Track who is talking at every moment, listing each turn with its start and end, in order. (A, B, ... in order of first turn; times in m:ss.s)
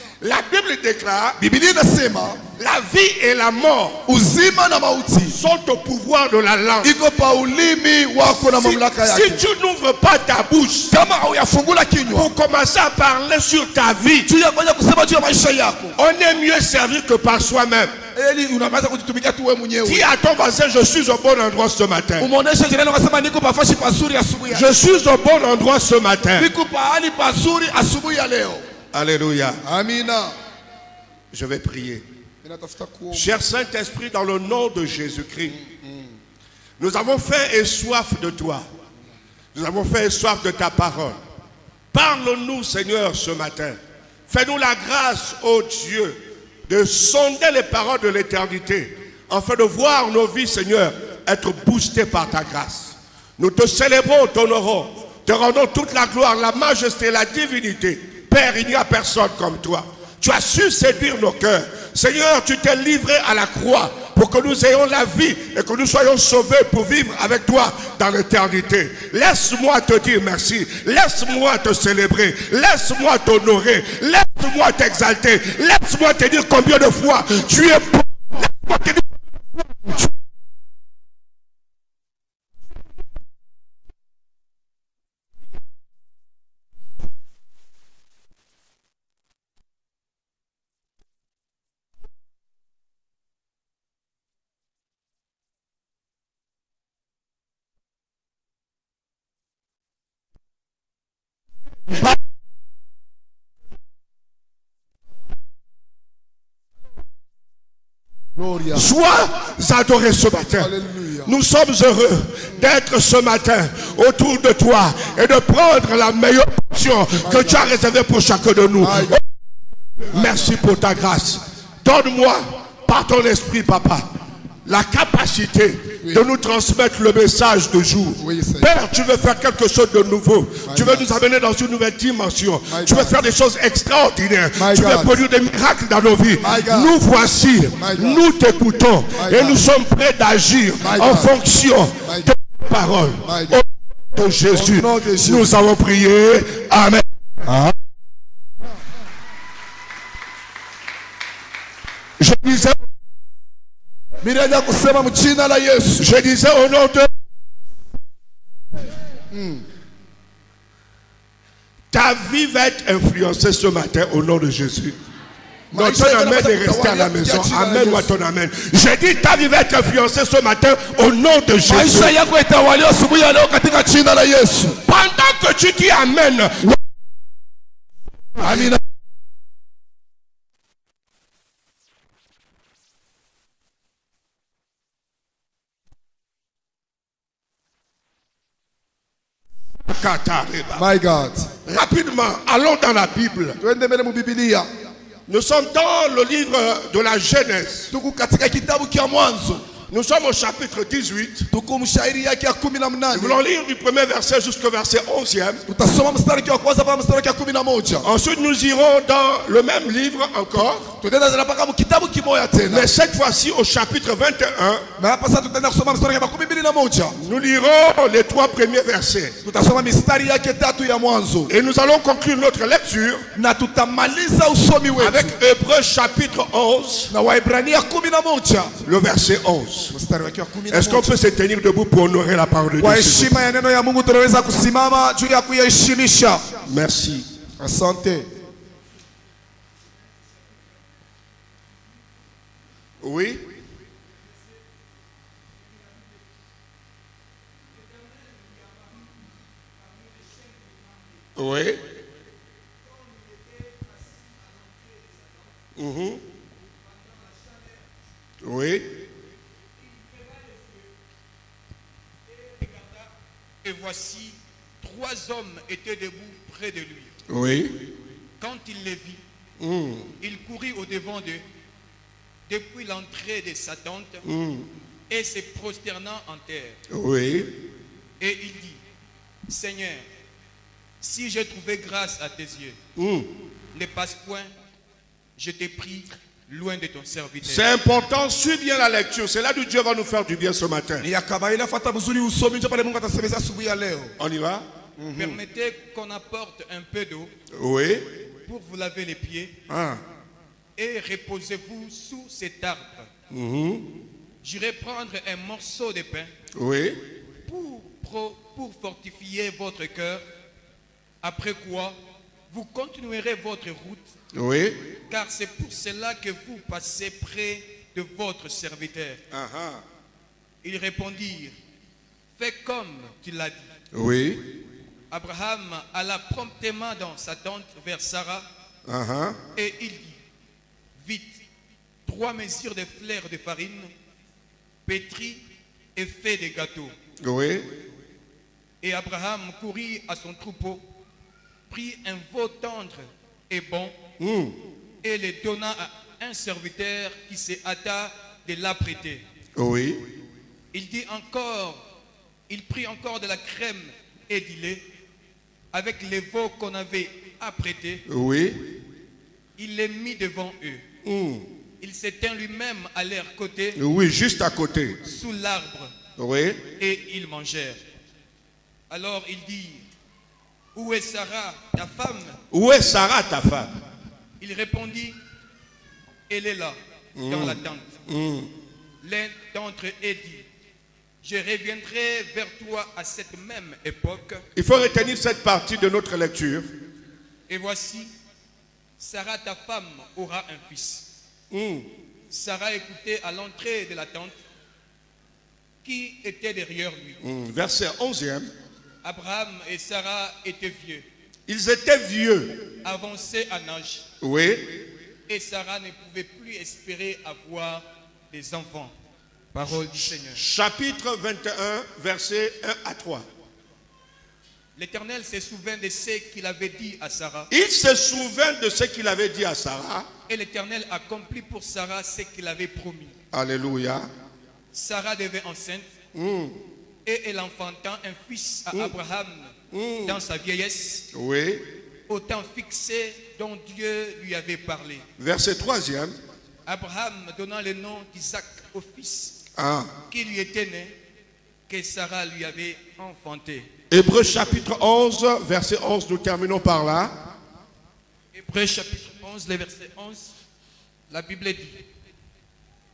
0:00.2-0:01.4 A
0:01.4-0:02.4 B
0:02.6-0:04.0 A
0:04.1-0:05.4 B
0:05.3-0:06.9 A
0:06.8-0:09.4 B
0:08.2-0:10.9 A
0:10.9-0:12.3 B
0:12.1-0:14.3 A
0:14.3-0:16.0 B
0:16.0-0:17.9 A
0:18.1-0:20.1 B
0:19.8-0:22.3 A
0:22.2-0:24.8 B
0:24.5-0:26.5 A
0:26.4-0:28.7 B
0:28.9-0:29.6 A
0:29.6-0:30.4 B
0:31.3-0:32.0 A
0:32.4-0:33.4 B
0:33.1-0:35.6 A
0:35.5-0:36.1 B
0:36.8-0:38.6 A
0:39.5-0:41.2 A
0:41.9-1:19.0 A
1:48.4-1:48.9 B
1:48.7-1:50.7 A
1:50.6-1:51.3 B
1:51.2-1:59.2 A
1:57.2-1:57.7 B
1:58.8-1:59.2 B
2:00.1-2:04.1 A
2:04.6-2:27.0 A
2:06.0-2:06.3 B
2:08.2-2:08.7 B
2:10.6-2:11.2 B
2:12.7-2:13.3 B
2:14.5-2:15.2 B
2:16.4-2:16.9 B
2:17.8-2:18.3 B
2:19.1-2:19.6 B
2:20.8-2:21.3 B
2:22.0-2:22.3 B
2:23.2-2:23.6 B
2:24.5-2:25.6 B
2:27.4-2:27.7 B
2:32.2-2:32.8 A
2:34.2-2:36.2 B
2:36.0-2:37.1 A
2:39.3-2:39.6 B
2:41.9-2:45.0 A
2:45.7-2:48.1 B
2:45.7-2:52.1 A
2:51.6-2:54.8 B
2:54.9-2:56.7 A
2:58.4-2:58.8 B
3:09.9-3:10.8 A
3:10.7-3:11.5 B
3:11.6-3:13.6 A
3:13.6-3:14.7 B
3:15.3-3:17.9 A
3:17.9-3:19.6 B
3:19.9-3:21.5 A
3:21.5-3:23.4 B
3:23.1-3:25.6 A
3:25.7-3:28.1 B
3:28.0-3:30.8 A
3:30.8-3:32.9 B
3:32.7-3:34.8 A
3:35.0-3:37.2 B
3:37.2-3:39.4 A
3:39.4-3:41.5 B
3:41.5-3:43.2 A
3:43.3-3:45.4 B
3:45.0-3:47.1 A
3:47.1-3:48.7 B
3:48.8-3:49.9 A
3:49.9-3:51.2 B
3:50.7-3:53.4 A
3:52.8-3:56.5 B
3:56.6-3:57.2 A
3:57.6-3:58.3 B
4:03.0-4:03.4 A
4:08.4-4:08.8 C
4:10.0-4:10.8 C
4:11.4-4:11.8 A
4:13.6-4:15.2 C
4:15.8-4:16.2 A
4:18.4-4:19.0 A
4:20.2-4:20.7 C
4:22.4-4:23.1 C
4:23.6-4:27.1 C
4:27.3-4:27.8 A
4:28.4-4:29.2 C
4:29.6-4:30.1 A
4:30.2-4:31.4 C
4:32.5-4:34.2 C
4:34.2-4:34.7 A
4:35.1-4:36.8 C
4:36.9-4:37.5 A
4:38.2-4:38.8 C
4:39.5-4:40.0 C
4:41.0-4:42.8 C
4:43.0-4:43.3 A
4:43.7-4:44.5 C
4:45.4-4:47.7 C
4:47.4-4:51.0 A
4:51.0-4:54.1 B
4:54.2-4:54.6 A
4:55.0-4:55.4 B
4:55.2-4:57.3 C
4:57.5-4:58.1 A
4:58.4-4:59.5 C
4:59.7-5:00.0 B
5:00.8-5:03.1 C
5:03.3-5:03.8 A
5:04.4-5:06.3 C
5:06.5-5:07.0 A
5:07.5-5:10.2 C
5:11.2-5:12.0 C
5:12.5-5:14.1 C
5:14.3-5:14.8 A
5:15.1-5:19.2 C
5:19.3-5:19.8 A
5:20.6-5:21.5 C
5:22.4-5:23.7 C
5:23.9-5:24.4 A
5:25.1-5:28.5 C
5:28.9-5:29.4 A
5:29.5-5:30.2 C
5:31.0-5:31.4 C
5:32.0-5:33.9 C
5:34.8-5:35.4 C
5:35.9-5:36.9 C
5:37.2-5:37.7 A
5:38.8-5:40.8 C
5:41.7-5:44.0 C
5:44.2-5:44.5 A
5:45.0-5:49.2 C
5:49.6-5:50.0 A
5:50.7-5:51.8 C
5:52.5-5:54.8 C
5:55.7-5:58.0 C
5:58.1-5:58.7 A
5:59.6-6:00.8 C
6:01.0-6:01.4 A
6:01.8-6:03.8 C
6:03.8-6:05.0 A
6:05.0-6:05.9 C
6:06.2-6:06.6 A
6:06.8-6:07.8 C
6:08.9-6:09.8 C
6:10.7-6:12.4 C
6:12.5-6:13.7 A
6:14.4-6:15.2 C
6:16.3-6:17.9 C
6:17.2-6:18.5 A
6:19.0-6:20.4 C
6:21.2-6:24.4 C
6:24.6-6:26.7 A
6:27.5-6:28.1 C
6:29.0-6:31.0 C
6:31.5-6:31.8 A
6:32.3-6:34.4 C
6:35.8-6:37.2 C
6:37.2-6:38.5 A
6:39.0-6:41.0 C
6:41.5-6:42.5 A
6:42.8-6:44.0 C
6:44.2-6:44.8 A
6:45.3-6:48.9 C
6:49.5-6:50.4 C
6:50.3-6:53.2 A
6:54.8-6:57.5 C
6:57.5-7:00.0 A
7:00.3-7:03.2 C
7:03.3-7:04.1 A
7:04.7-7:05.9 C
7:06.1-7:06.6 A
7:07.0-7:11.0 C
7:09.7-7:10.2 A
7:11.1-7:11.6 A
7:12.1-7:15.0 C
7:15.2-7:16.2 A
7:16.6-7:19.3 C
7:19.6-7:19.9 A
7:20.1-7:20.9 C
7:21.7-7:23.7 C
7:23.9-7:27.1 A
7:28.3-7:30.3 C
7:31.1-7:31.8 C